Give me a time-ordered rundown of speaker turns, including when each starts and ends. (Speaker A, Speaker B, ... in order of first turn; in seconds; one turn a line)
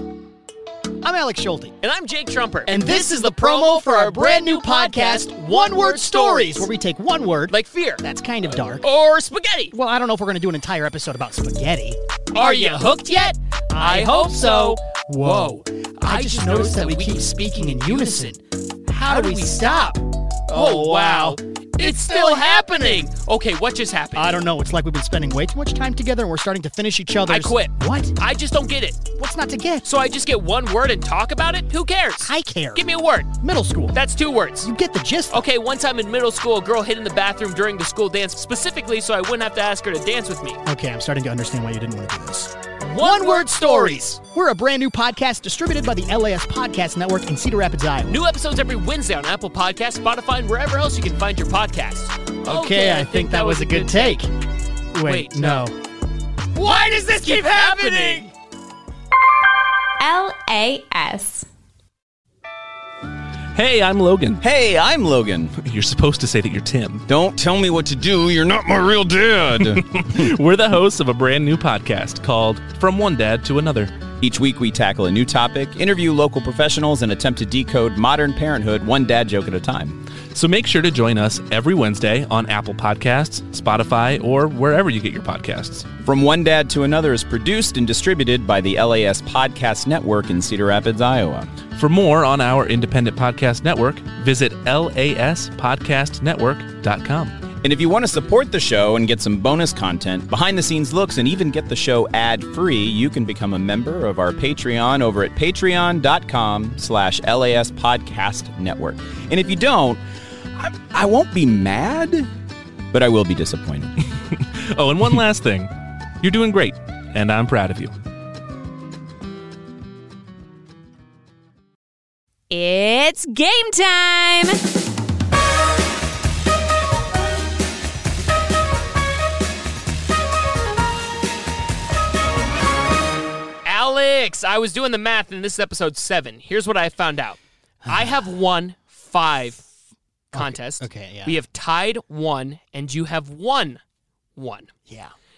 Speaker A: 1.0-1.8
Speaker B: 1.8-6.7
Speaker A: 2.7-8.9
Speaker B: 7.5-8.0
Speaker B: 8.8-9.7
Speaker A: 9.7-23.1
Speaker B: 12.3-18.4
Speaker B: 18.9-20.0
Speaker B: 20.5-24.4
Speaker A: 24.1-28.1
Speaker B: 27.2-29.0
Speaker A: 29.1-29.9
Speaker B: 29.8-33.3
Speaker A: 32.2-34.0
Speaker B: 33.9-34.7
Speaker A: 34.6-35.4
Speaker B: 35.3-40.6
Speaker A: 40.6-48.2
Speaker B: 42.8-44.2
Speaker B: 48.1-54.2
Speaker A: 52.4-54.3
Speaker A: 54.9-55.8
Speaker B: 55.0-55.7
Speaker A: 56.5-58.3
Speaker B: 56.6-58.3
Speaker C: 60.0-61.5
Speaker D: 63.5-64.4
Speaker E: 64.4-65.5
Speaker D: 65.6-67.0
Speaker E: 67.1-70.3
Speaker D: 69.5-73.9
Speaker E: 74.2-80.0
Speaker D: 80.3-85.9
Speaker E: 86.0-91.5
Speaker D: 91.7-97.4
Speaker E: 97.6-110.0
Speaker E: 110.6-112.3
Speaker E: 112.9-113.9
Speaker D: 114.3-117.9
Speaker C: 122.5-124.6
Speaker B: 133.6-139.6
Speaker A: 137.8-138.2
Speaker B: 140.3-143.8
Speaker A: 140.3-141.4
Speaker B: 144.3-144.7
Speaker A: 144.9-145.1